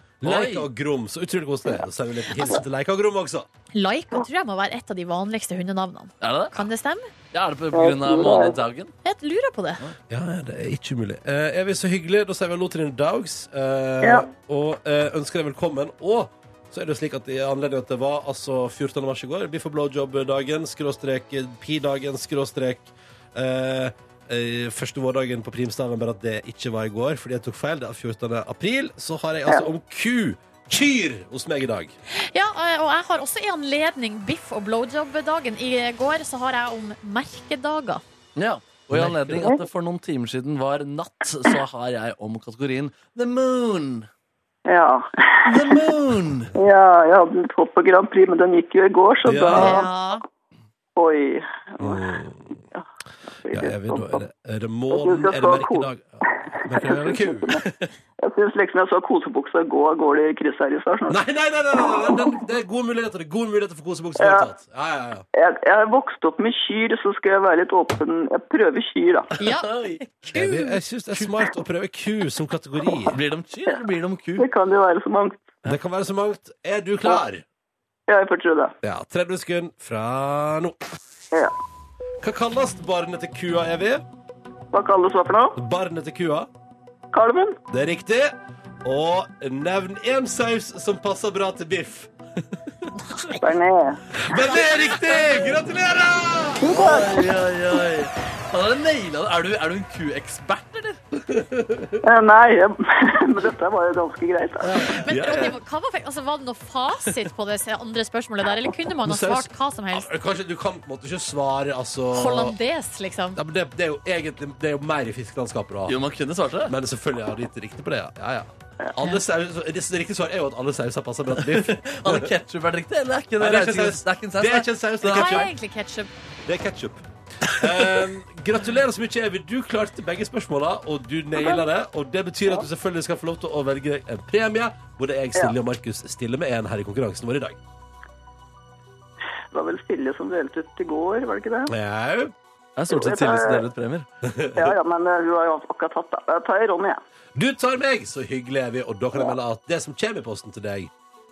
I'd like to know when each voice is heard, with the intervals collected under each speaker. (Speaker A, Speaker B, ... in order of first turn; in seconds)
Speaker A: 0.2-3.5, 10.1-31.9, 38.9-39.5, 45.6-46.5, 49.2-49.8, 51.8-52.6, 53.5-57.8, 61.1-65.2, 70.3-73.2, 75.7-77.4, 78.8-80.8, 82.2-84.0, 85.5-86.5, 87.7-92.1, 94.2-96.9, 101.2-102.0, 104.6-105.6, 109.0-112.5, 113.3-116.0, 116.7-122.3, 123.4-125.5, 126.5-137.6, 141.7-142.3, 143.0-143.6, 144.2-144.7, 147.3-150.9
Speaker B: 0.2-0.7, 6.2-6.5, 7.3-8.9, 38.4-44.1, 45.5-46.4, 69.6-70.0, 73.1-74.5, 96.7-101.0, 115.9-116.7, 121.5-125.5, 142.8-144.1
Speaker C: 3.7-7.1, 9.0-9.8, 32.1-38.0, 49.5-50.2, 69.4-71.2, 105.0-110.1, 112.1-113.4, 125.0-126.1
Speaker D: 7.7-8.6, 14.0-14.3, 44.6-45.8, 46.5-49.9, 51.0-52.0, 53.4-54.2, 54.9-57.6, 58.2-61.2, 61.7-62.4, 64.2-64.5, 65.3-69.3, 74.4-75.6, 78.1-78.7, 84.7-85.6, 87.1-87.6, 93.4-94.0, 96.6-97.2, 102.0-104.8, 139.5-141.7, 142.9-143.6, 144.6-147.0